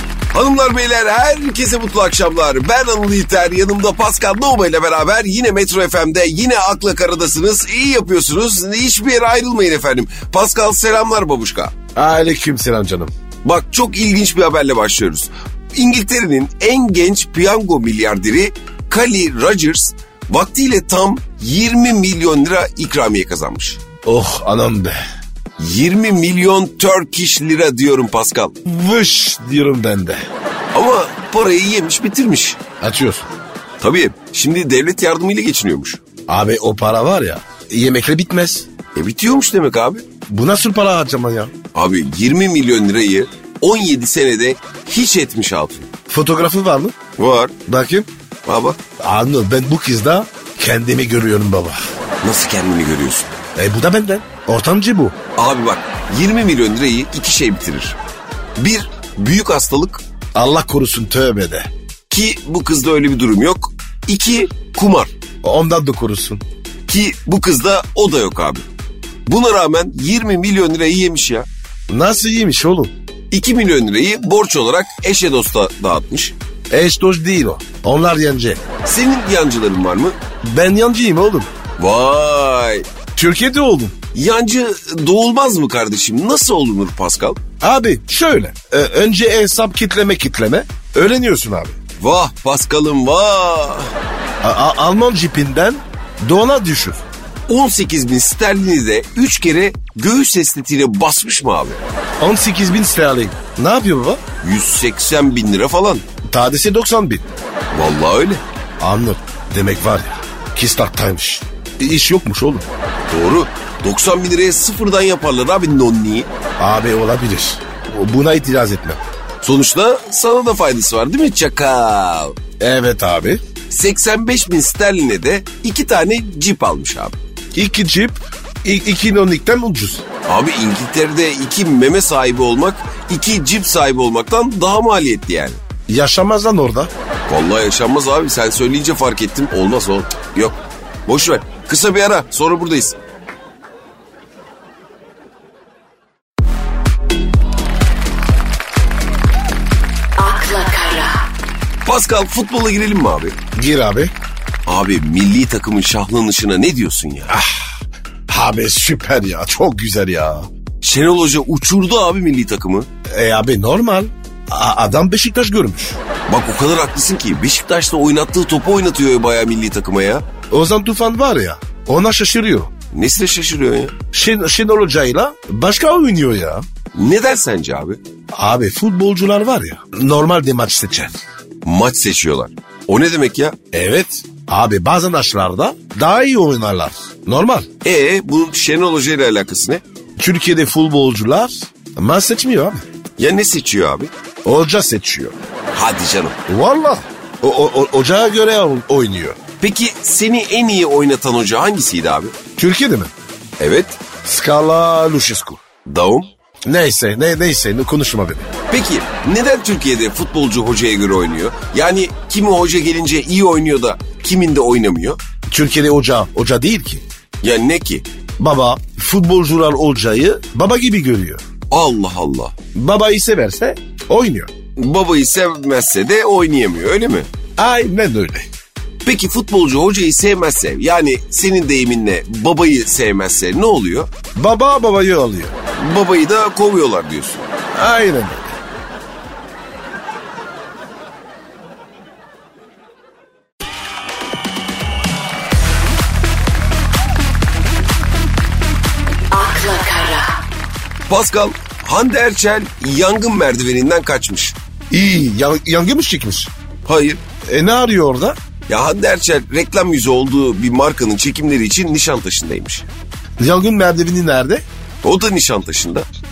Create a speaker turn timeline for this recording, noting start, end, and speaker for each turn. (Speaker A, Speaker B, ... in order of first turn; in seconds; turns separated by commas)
Speaker A: 0.3-11.7, Speaker B: 12.0-13.1, Speaker A: 13.4-23.8, Speaker B: 24.0-25.0, Speaker A: 25.6-28.5, Speaker B: 28.6-30.2, Speaker A: 30.7-32.6, Speaker B: 32.8-33.3, Speaker A: 33.8-36.0, Speaker B: 36.3-38.7, Speaker A: 39.0-40.0, Speaker B: 40.3-41.5, Speaker A: 41.7-45.9, Speaker B: 46.1-46.9, Speaker A: 47.2-47.5, Speaker B: 47.7-48.1, Speaker A: 48.5-48.8, Speaker B: 49.0-51.8, Speaker A: 52.2-53.3, Speaker B: 53.5-55.2, Speaker A: 55.4-58.0, Speaker A: 58.6-60.0, Speaker B: 60.4-61.7, Speaker A: 62.1-65.1, Speaker B: 65.4-66.4, Speaker A: 66.9-68.7, Speaker A: 69.2-71.5, Speaker B: 71.9-72.9, Speaker A: 73.3-76.3, Speaker B: 76.7-78.6, Speaker A: 78.8-80.1, Speaker B: 80.4-81.5, Speaker A: 81.8-82.8, Speaker B: 83.2-83.9, Speaker A: 84.1-87.4, Speaker B: 87.6-91.8, Speaker A: 92.0-93.9, Speaker B: 94.4-97.0, Speaker A: 97.5-101.8, Speaker B: 102.2-104.2, Speaker A: 104.4-106.0, Speaker B: 106.3-107.2, Speaker A: 107.7-108.4, Speaker B: 108.8-112.7, Speaker A: 113.1-116.3, Speaker B: 116.6-119.0, Speaker A: 119.4-122.3, Speaker B: 122.6-123.4, Speaker A: 123.7-127.2, Speaker B: 127.5-130.0, Speaker A: 130.2-135.6, Speaker B: 135.9-136.9, Speaker A: 137.3-143.0, Speaker C: 150.2-151.2, Speaker A: 151.8-153.4, Speaker B: 153.6-154.1, Speaker A: 154.7-157.3, Speaker B: 157.3-157.8, Speaker B: 158.3-160.5, Speaker A: 160.8-162.9, Speaker B: 163.1-166.0, Speaker A: 166.3-170.2, Speaker B: 170.5-172.7, Speaker A: 172.9-174.0, Speaker B: 174.1-176.6, Speaker A: 176.9-178.0, Speaker B: 178.3-181.2, Speaker A: 181.6-183.6, Speaker B: 183.7-187.7, Speaker A: 187.8-189.8, Speaker B: 190.2-192.8, Speaker A: 193.2-194.1, Speaker B: 194.4-195.3, Speaker A: 195.7-196.4, Speaker B: 196.5-199.4, Speaker A: 199.6-202.3, Speaker B: 202.6-203.1, Speaker A: 203.6-204.0, Speaker B: 204.2-205.6, Speaker A: 205.9-206.3, Speaker B: 206.7-208.5, Speaker A: 208.7-215.2, Speaker B: 215.5-217.0, Speaker A: 217.4-218.1, Speaker B: 218.4-221.4, Speaker A: 221.7-222.5, Speaker B: 222.8-224.5, Speaker A: 224.8-227.3, Speaker B: 227.6-228.5, Speaker A: 229.1-234.1, Speaker B: 234.4-235.5, Speaker A: 235.8-237.5, Speaker B: 237.7-238.5, Speaker C: 249.3-250.4, Speaker A: 251.1-254.6, Speaker B: 254.9-256.5, Speaker A: 256.8-257.2, Speaker B: 257.4-258.4, Speaker A: 258.7-262.9, Speaker B: 263.4-264.6, Speaker A: 265.0-266.1